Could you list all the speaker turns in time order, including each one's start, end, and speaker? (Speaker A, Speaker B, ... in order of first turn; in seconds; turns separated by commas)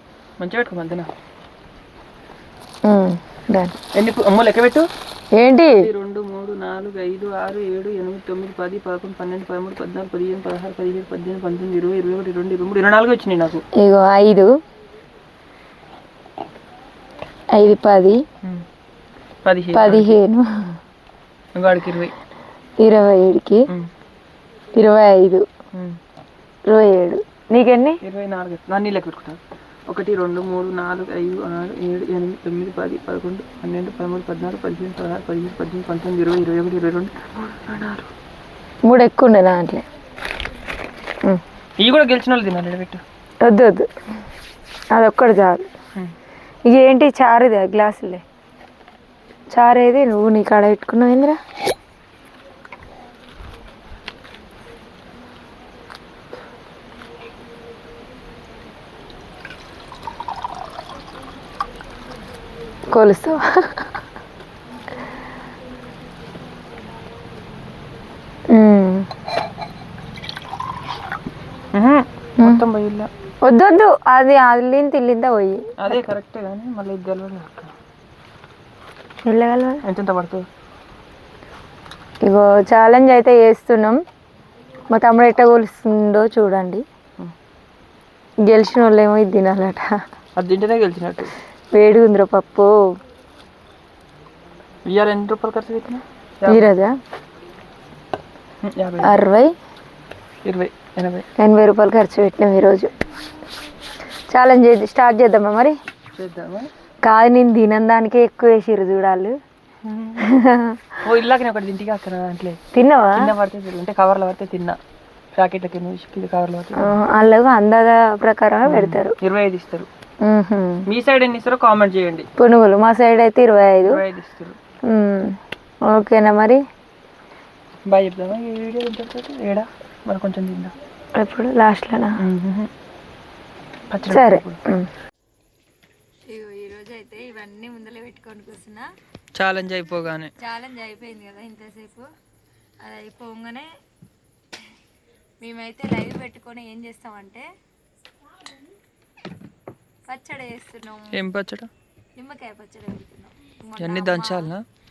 Speaker A: 0.4-1.1, Speaker B: 2.8-3.7, Speaker A: 3.9-4.9, Speaker B: 5.3-5.9, Speaker A: 5.7-13.6, Speaker B: 13.8-14.5, Speaker B: 17.5-18.2, Speaker A: 19.4-20.2, Speaker B: 19.7-20.5, Speaker A: 21.5-22.1, Speaker B: 22.8-23.6, Speaker B: 24.8-25.4, Speaker A: 25.7-26.0, Speaker B: 26.7-28.0, Speaker A: 28.0-38.1, Speaker B: 38.8-39.8, Speaker A: 41.8-43.0, Speaker B: 43.4-43.9, Speaker B: 44.9-45.7, Speaker B: 46.7-48.2, Speaker B: 49.5-51.4, Speaker B: 62.9-63.9, Speaker B: 68.5-69.1, Speaker A: 71.7-73.1, Speaker B: 73.4-75.6, Speaker A: 75.8-77.7, Speaker B: 79.2-79.8, Speaker A: 79.8-80.4, Speaker B: 82.2-84.0, Speaker B: 84.9-86.8, Speaker B: 88.5-89.9, Speaker A: 90.3-91.3, Speaker B: 91.7-92.7, Speaker A: 94.8-96.7, Speaker B: 96.5-96.9, Speaker A: 98.6-99.2, Speaker B: 99.0-99.5, Speaker A: 100.4-101.2, Speaker B: 101.4-102.9, Speaker B: 104.3-105.7, Speaker A: 106.1-106.7, Speaker B: 107.0-109.3, Speaker A: 109.8-110.3, Speaker B: 110.2-111.0, Speaker A: 111.0-112.6, Speaker B: 112.7-113.3, Speaker A: 113.2-114.8, Speaker A: 115.3-117.0, Speaker B: 116.8-119.2, Speaker A: 118.7-119.9, Speaker B: 120.2-120.8, Speaker A: 120.9-122.3, Speaker B: 122.4-124.0, Speaker A: 123.8-124.5, Speaker B: 124.9-126.6, Speaker A: 127.8-130.7, Speaker B: 131.2-132.2, Speaker A: 132.2-132.7, Speaker A: 133.9-134.6, Speaker B: 134.1-134.9, Speaker B: 136.3-138.9, Speaker A: 139.3-140.3, Speaker B: 140.4-142.1, Speaker B: 142.8-143.7, Speaker B: 145.4-147.4, Speaker B: 150.1-151.2, Speaker A: 151.1-151.7, Speaker B: 152.2-154.5, Speaker A: 153.8-154.6